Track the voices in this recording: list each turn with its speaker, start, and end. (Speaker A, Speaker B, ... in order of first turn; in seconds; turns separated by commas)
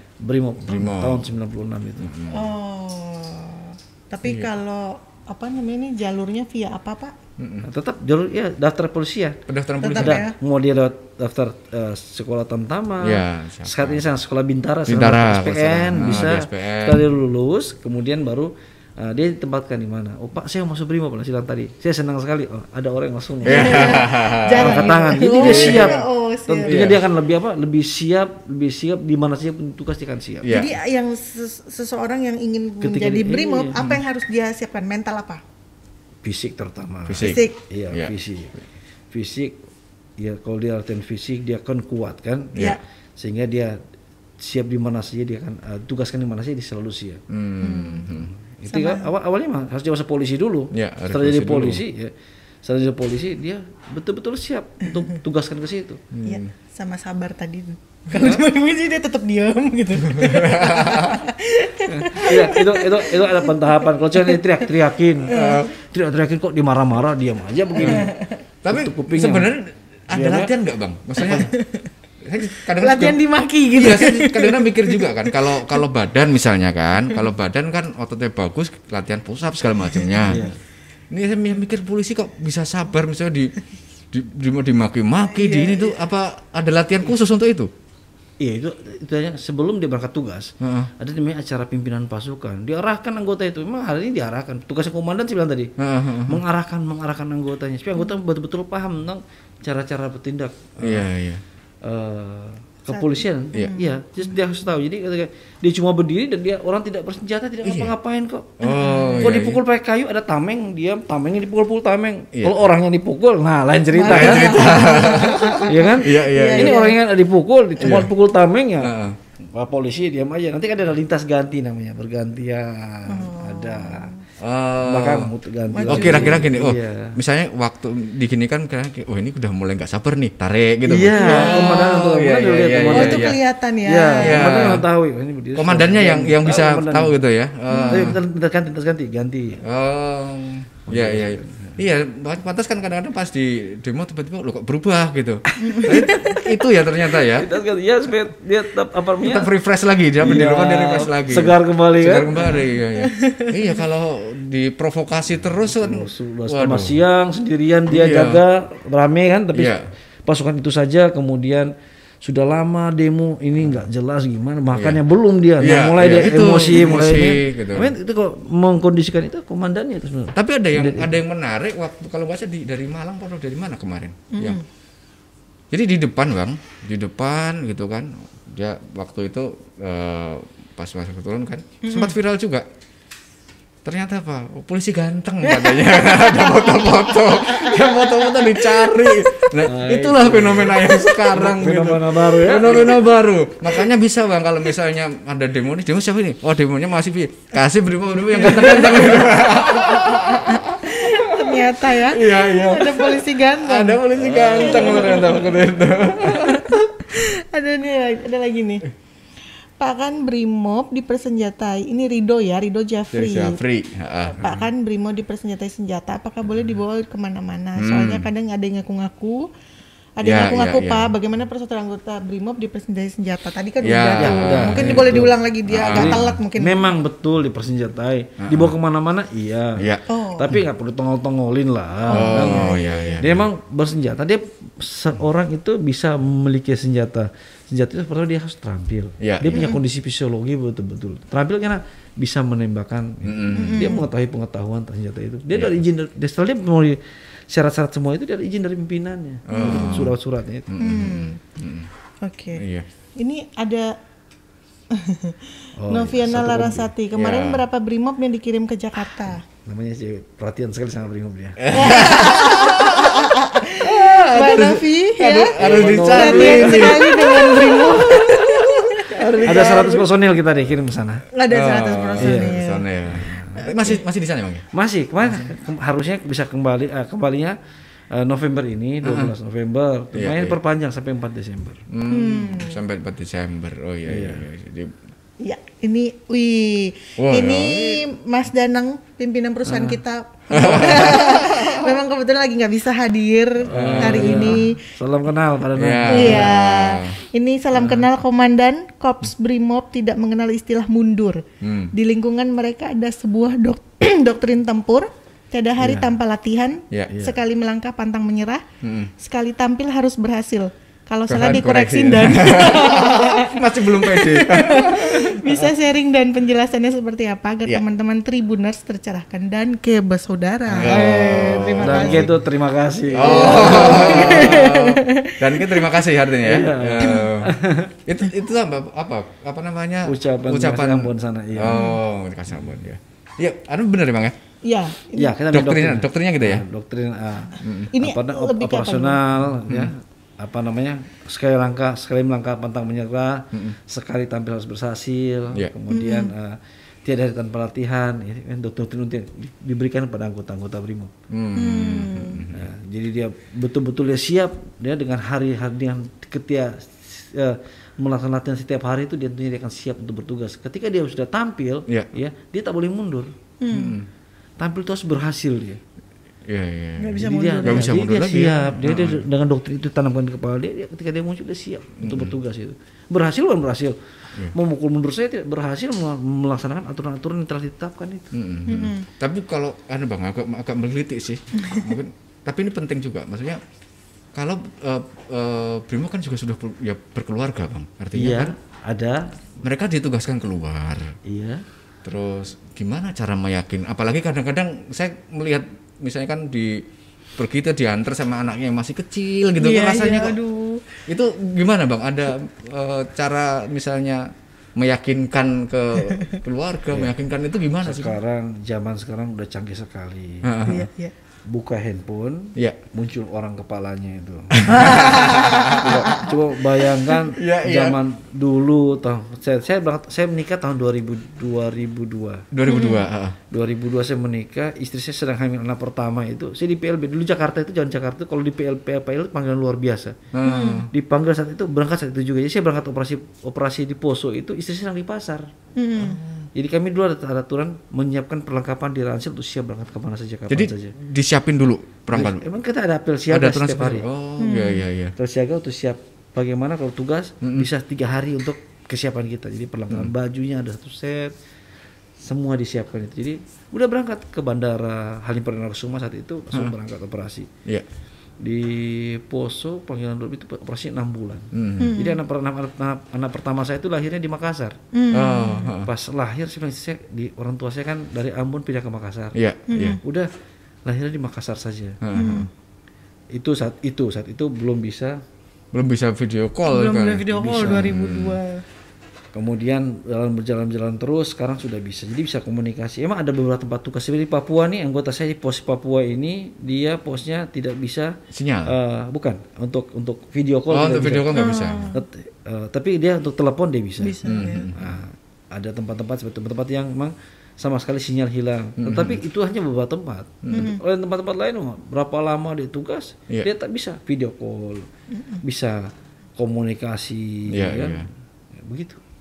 Speaker A: 0.2-2.3, Speaker B: 0.6-1.3, Speaker B: 2.0-2.5, Speaker C: 2.3-7.2, Speaker B: 4.2-4.5, Speaker B: 7.4-7.7, Speaker A: 7.6-30.5, Speaker B: 9.5-10.2, Speaker C: 9.8-10.3, Speaker B: 13.0-14.0, Speaker B: 14.8-17.1, Speaker B: 23.4-26.0, Speaker C: 23.4-26.9, Speaker B: 26.6-27.0, Speaker B: 30.4-30.7, Speaker C: 30.5-35.4, Speaker A: 32.8-33.8, Speaker B: 33.8-34.0, Speaker A: 36.2-38.6, Speaker B: 37.1-38.1, Speaker C: 37.2-37.6, Speaker A: 39.1-39.6, Speaker A: 40.2-43.8, Speaker A: 44.4-47.2, Speaker B: 47.3-48.3, Speaker C: 47.6-48.1, Speaker A: 48.4-52.1, Speaker C: 48.7-49.1, Speaker B: 50.7-51.8, Speaker A: 52.6-56.0, Speaker B: 56.1-56.5, Speaker C: 56.2-63.8, Speaker A: 58.1-58.4, Speaker B: 60.0-61.2, Speaker A: 61.9-68.1, Speaker B: 65.3-65.7, Speaker C: 65.3-65.7, Speaker B: 67.8-68.1, Speaker C: 67.8-68.4, Speaker B: 68.6-71.5, Speaker A: 68.7-69.5, Speaker A: 70.1-70.5, Speaker C: 71.2-71.9, Speaker B: 72.2-80.4, Speaker C: 72.4-75.4, Speaker A: 80.3-80.6, Speaker B: 81.1-83.5, Speaker B: 84.1-87.7, Speaker C: 85.3-86.0, Speaker A: 88.4-95.7, Speaker B: 90.6-90.9, Speaker B: 95.8-96.4, Speaker A: 96.2-101.0, Speaker B: 100.8-101.4, Speaker A: 101.8-124.1, Speaker C: 102.9-104.0, Speaker B: 107.6-107.9, Speaker B: 108.6-109.6, Speaker C: 108.6-109.3, Speaker B: 112.3-112.6, Speaker C: 113.9-117.0, Speaker B: 114.0-116.9, Speaker B: 117.8-118.1, Speaker B: 118.8-119.2, Speaker C: 123.1-124.2, Speaker B: 124.4-125.3, Speaker A: 124.8-127.2, Speaker C: 125.7-126.4, Speaker B: 125.9-133.4, Speaker A: 130.8-137.2, Speaker C: 131.2-131.9, Speaker C: 132.9-134.7, Speaker B: 134.2-134.9, Speaker B: 135.5-138.2, Speaker C: 137.7-138.1, Speaker A: 137.9-139.6, Speaker B: 139.6-147.5, Speaker A: 140.9-141.8, Speaker C: 145.6-146.5, Speaker A: 145.6-145.9, Speaker A: 147.3-149.5, Speaker B: 149.2-157.0, Speaker A: 150.2-152.6, Speaker C: 153.0-153.6, Speaker A: 155.5-159.7, Speaker B: 157.9-158.4, Speaker B: 159.5-159.9, Speaker A: 160.2-161.7, Speaker A: 162.2-171.1, Speaker B: 164.7-165.0, Speaker B: 165.6-167.9, Speaker B: 170.3-174.6, Speaker C: 174.3-174.6, Speaker B: 175.7-182.7, Speaker C: 181.8-182.1, Speaker B: 183.8-206.8, Speaker C: 185.4-189.4, Speaker A: 189.6-193.1, Speaker C: 198.4-205.6, Speaker A: 204.2-205.6, Speaker C: 206.2-208.9, Speaker C: 209.8-213.6, Speaker B: 213.1-214.7, Speaker C: 214.4-219.5, Speaker B: 217.8-218.3, Speaker C: 220.2-226.8, Speaker B: 220.2-221.1, Speaker B: 223.8-226.3, Speaker A: 224.2-250.7, Speaker B: 228.4-228.7, Speaker B: 229.8-230.6, Speaker C: 230.1-230.5, Speaker C: 232.1-233.2, Speaker B: 232.1-233.5, Speaker B: 239.2-239.7, Speaker C: 239.5-239.8, Speaker B: 243.2-244.0, Speaker C: 243.5-244.1, Speaker B: 245.5-245.8, Speaker B: 249.5-250.2, Speaker C: 249.5-250.1, Speaker B: 250.7-251.9, Speaker C: 250.8-251.4, Speaker C: 252.2-252.6, Speaker B: 252.5-252.9, Speaker C: 253.2-253.9, Speaker C: 254.9-259.4, Speaker A: 255.8-256.9, Speaker B: 257.1-257.7, Speaker A: 259.6-262.1, Speaker B: 261.6-263.3, Speaker C: 261.7-270.0, Speaker A: 263.8-264.7, Speaker B: 264.0-268.4, Speaker A: 265.5-271.2, Speaker B: 269.2-269.6, Speaker C: 271.3-272.9, Speaker B: 271.5-274.6, Speaker A: 272.2-272.5, Speaker A: 273.1-273.6, Speaker C: 273.6-273.9, Speaker A: 274.7-277.6, Speaker A: 278.1-281.8, Speaker B: 279.0-279.3, Speaker B: 280.1-280.6, Speaker B: 281.9-284.9, Speaker C: 282.1-282.8, Speaker A: 284.1-284.4, Speaker C: 285.4-294.8, Speaker B: 287.2-288.0, Speaker A: 289.6-290.0, Speaker B: 290.5-291.9, Speaker A: 293.6-296.5, Speaker B: 293.7-294.6, Speaker B: 295.8-297.2, Speaker C: 296.1-301.4, Speaker A: 297.7-298.1, Speaker B: 301.6-301.9, Speaker C: 301.9-308.6, Speaker A: 305.8-306.1, Speaker A: 307.1-307.4, Speaker B: 308.8-309.1, Speaker C: 309.2-322.3, Speaker B: 311.3-315.7, Speaker A: 320.7-321.0, Speaker B: 320.8-322.3, Speaker A: 321.8-324.7, Speaker B: 323.1-334.4, Speaker C: 323.2-326.0, Speaker A: 326.4-327.9, Speaker C: 327.0-327.3, Speaker A: 330.0-331.9, Speaker C: 331.7-332.0, Speaker C: 334.6-335.4, Speaker A: 335.1-351.1, Speaker B: 335.5-336.6, Speaker B: 337.6-337.9, Speaker C: 337.9-339.2, Speaker B: 339.6-339.9, Speaker C: 345.9-346.3, Speaker B: 351.3-352.7, Speaker C: 351.5-352.4, Speaker A: 352.5-363.3, Speaker C: 363.6-364.0, Speaker B: 363.7-364.1, Speaker A: 364.6-365.8, Speaker B: 366.4-369.2, Speaker C: 367.0-368.1, Speaker A: 367.1-378.3, Speaker B: 372.0-372.3, Speaker B: 378.3-383.6, Speaker C: 378.6-379.1, Speaker B: 384.3-388.5, Speaker A: 388.1-389.3, Speaker B: 389.6-391.1, Speaker A: 391.2-391.6, Speaker B: 392.0-396.9, Speaker B: 397.4-400.4, Speaker C: 399.6-401.0, Speaker B: 401.1-408.1, Speaker C: 406.0-406.4, Speaker A: 407.8-410.7, Speaker B: 410.4-410.9, Speaker C: 410.7-411.1, Speaker A: 411.5-422.5, Speaker B: 414.6-416.1, Speaker C: 414.7-416.3, Speaker B: 417.3-418.0, Speaker B: 422.5-423.4, Speaker C: 422.6-423.0, Speaker A: 423.5-430.2, Speaker B: 430.3-430.9, Speaker C: 430.4-430.9, Speaker A: 430.9-435.5, Speaker C: 435.8-436.2, Speaker A: 436.5-440.9, Speaker B: 440.5-442.4, Speaker A: 442.1-444.1, Speaker B: 443.3-445.1, Speaker C: 444.4-444.9, Speaker A: 445.2-451.3, Speaker B: 447.4-447.7, Speaker A: 452.2-457.5, Speaker A: 458.4-464.8, Speaker B: 461.5-462.0, Speaker C: 461.8-462.2, Speaker C: 464.9-465.7, Speaker B: 465.1-465.9, Speaker A: 465.8-469.4, Speaker B: 469.3-470.0, Speaker C: 469.7-470.0, Speaker A: 470.0-470.3, Speaker A: 470.9-472.0, Speaker B: 472.0-472.5, Speaker C: 472.1-472.5, Speaker A: 473.3-475.2, Speaker B: 475.7-478.4, Speaker C: 476.7-478.6, Speaker A: 479.3-504.9, Speaker B: 488.3-488.7, Speaker B: 490.7-491.9, Speaker C: 491.3-492.0, Speaker C: 494.0-494.7, Speaker B: 494.2-495.0, Speaker B: 498.8-499.2, Speaker B: 500.4-500.7, Speaker C: 500.5-500.8, Speaker C: 505.1-505.4, Speaker A: 505.4-509.0, Speaker B: 507.5-508.1